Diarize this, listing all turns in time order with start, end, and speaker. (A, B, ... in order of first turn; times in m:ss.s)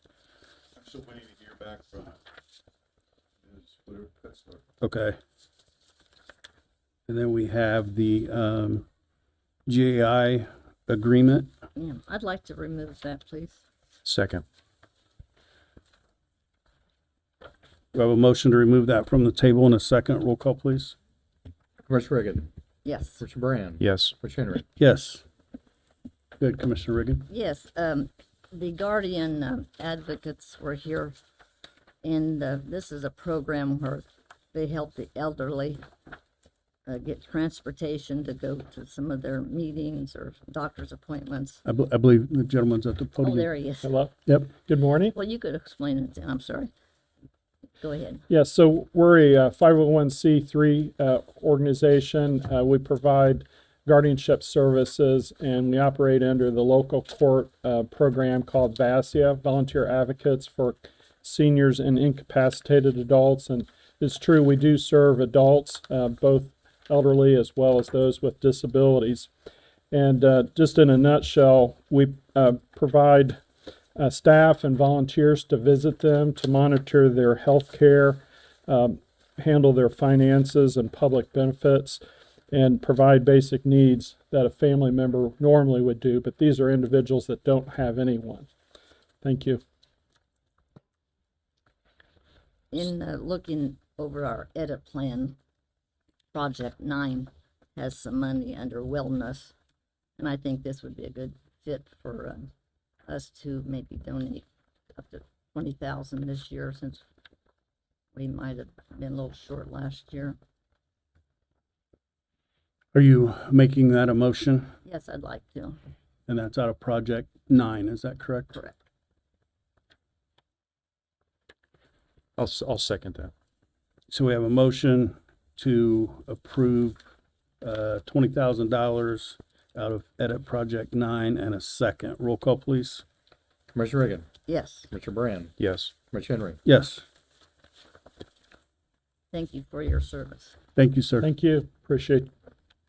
0:00.8-0:02.1 A
0:03.6-0:04.6 A
0:04.8-0:05.2 B
0:07.1-0:08.8 B
0:09.7-0:11.5 B
0:11.8-0:13.6 C
0:14.0-0:14.4 D
0:17.9-0:20.9 B
0:21.9-0:22.5 E
0:22.8-0:23.2 C
0:23.2-0:24.6 E
0:23.8-0:24.2 D
0:24.8-0:25.2 B
0:26.4-0:27.3 B
0:27.3-0:31.2 C
0:32.0-0:35.8 C
0:36.9-0:41.6 C
0:41.6-0:43.5 B
0:43.2-0:43.9 C
0:43.8-0:44.1 F
0:44.7-0:45.1 F
0:45.1-0:46.7 C
0:47.8-0:48.2 C
0:48.3-1:09.3 F
1:09.9-1:13.4 F
1:14.0-1:28.5 F
1:29.2-1:29.6 F
1:32.7-1:35.4 C
1:36.3-1:39.5 C
1:40.2-1:42.5 C
1:43.1-1:47.0 C
1:48.2-1:50.4 C
1:52.9-1:54.7 B
1:54.8-1:55.8 C
1:56.3-1:58.6 B
2:02.4-2:03.3 D
2:04.1-2:07.0 B
2:07.6-2:13.0 B
2:13.7-2:14.3 E
2:14.5-2:14.9 C
2:14.9-2:15.5 E
2:15.6-2:15.9 D
2:16.1-2:16.6 E
2:16.6-2:17.0 B
2:19.3-2:20.6 C
2:20.8-2:21.3 B
2:21.2-2:22.3 F